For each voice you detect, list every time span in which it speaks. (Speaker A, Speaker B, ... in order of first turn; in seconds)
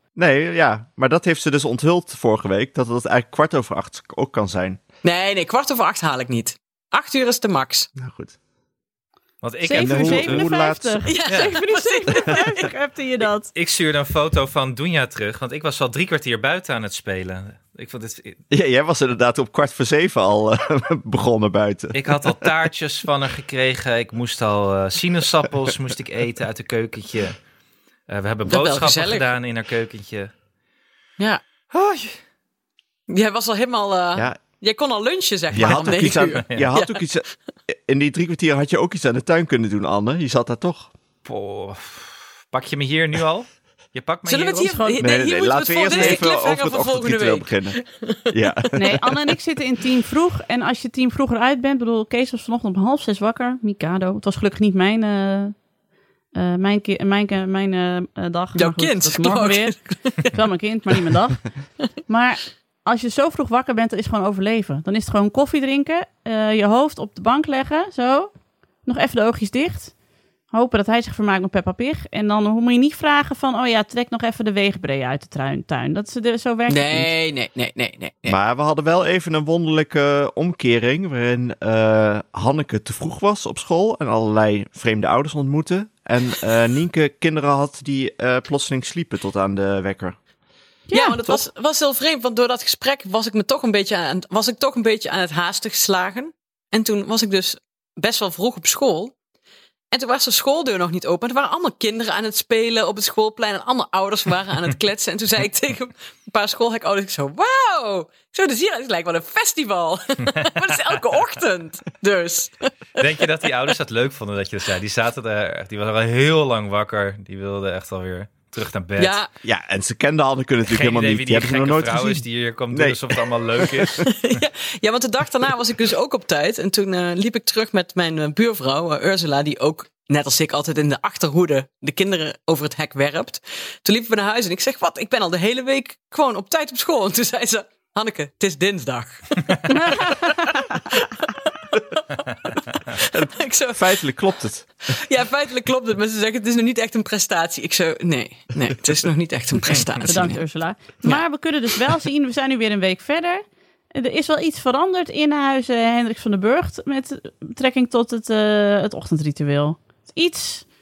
Speaker A: 0.1-4.8, 8.0-8.3, 9.7-11.1, 18.5-22.5, 35.5-40.9, 45.0-47.8, 48.3-49.1, 78.2-90.2, 119.4-124.0, 143.0-144.7
Speaker B: 5.0-7.9, 11.1-12.7, 28.5-29.3, 33.1-37.0, 44.3-48.7, 58.5-60.4, 76.7-78.4, 90.9-99.1, 99.9-113.2, 119.0-119.3, 124.0-140.3, 140.9-144.0, 144.9-150.4
Speaker C: 9.4-10.5, 13.5-18.4, 21.9-27.4, 28.1-30.3, 31.7-32.2, 35.5-36.7, 41.2-44.8, 113.0-119.2, 120.7-124.1
Speaker D: 9.6-13.5, 44.7-45.0, 48.7-55.6, 56.3-61.5, 62.1-68.3, 68.8-69.9, 70.5-77.1, 90.9-91.2, 139.7-140.8, 150.0-160.7